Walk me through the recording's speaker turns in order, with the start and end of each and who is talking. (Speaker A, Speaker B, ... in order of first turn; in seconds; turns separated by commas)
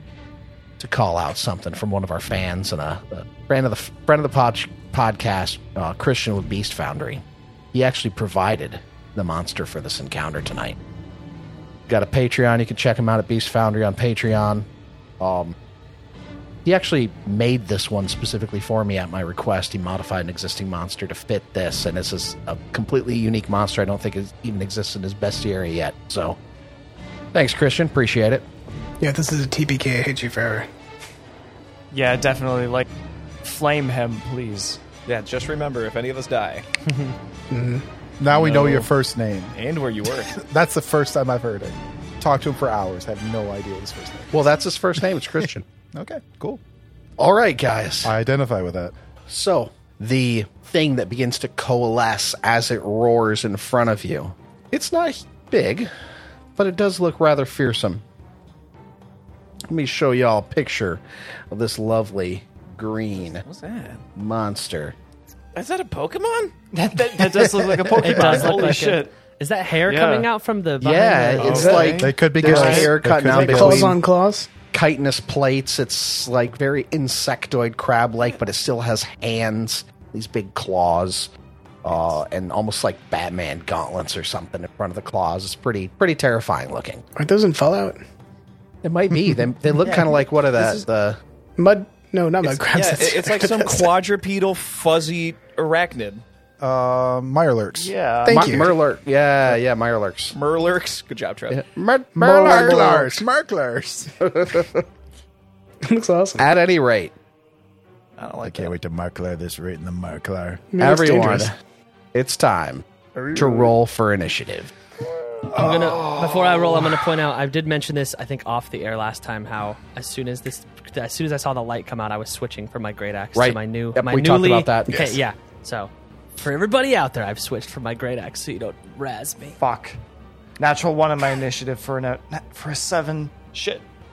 Speaker A: 0.8-10.8, Speaker A: 11.9-14.7, Speaker A: 15.2-15.5, Speaker A: 16.6-26.4, Speaker A: 27.3-28.4, Speaker B: 29.0-30.7, Speaker C: 31.9-32.9, Speaker C: 33.4-34.8, Speaker D: 35.0-36.6, Speaker B: 37.5-37.8, Speaker E: 38.2-39.5, Speaker D: 38.3-38.9, Speaker D: 39.5-40.3, Speaker E: 40.3-44.4, Speaker A: 44.3-45.6, Speaker E: 45.9-46.6, Speaker A: 47.2-48.1, Speaker E: 48.0-48.9, Speaker A: 49.3-55.9, Speaker A: 56.5-58.0, Speaker A: 59.7-63.4, Speaker D: 63.4-64.0, Speaker A: 64.2-64.9, Speaker D: 65.5-66.5, Speaker C: 66.7-69.1, Speaker F: 68.0-71.9, Speaker C: 69.8-70.3, Speaker A: 70.8-74.0, Speaker C: 71.4-72.9, Speaker E: 71.8-74.0, Speaker B: 72.4-74.5, Speaker A: 74.7-81.3, Speaker A: 81.8-87.0, Speaker B: 87.2-88.0, Speaker A: 88.8-91.2, Speaker B: 91.6-93.9, Speaker D: 92.4-96.2, Speaker E: 96.6-98.0, Speaker C: 97.8-98.6, Speaker B: 98.2-98.7, Speaker A: 98.2-100.3, Speaker D: 100.3-101.6, Speaker A: 101.5-103.1, Speaker E: 102.2-104.2, Speaker B: 102.2-103.2, Speaker A: 104.2-104.8, Speaker B: 105.8-106.5, Speaker A: 106.4-107.1, Speaker D: 108.2-108.7, Speaker E: 108.4-110.7, Speaker B: 110.7-111.5, Speaker A: 110.8-111.5, Speaker A: 112.1-114.7, Speaker F: 115.5-129.6, Speaker A: 123.3-125.2, Speaker C: 129.6-130.0, Speaker C: 130.6-133.8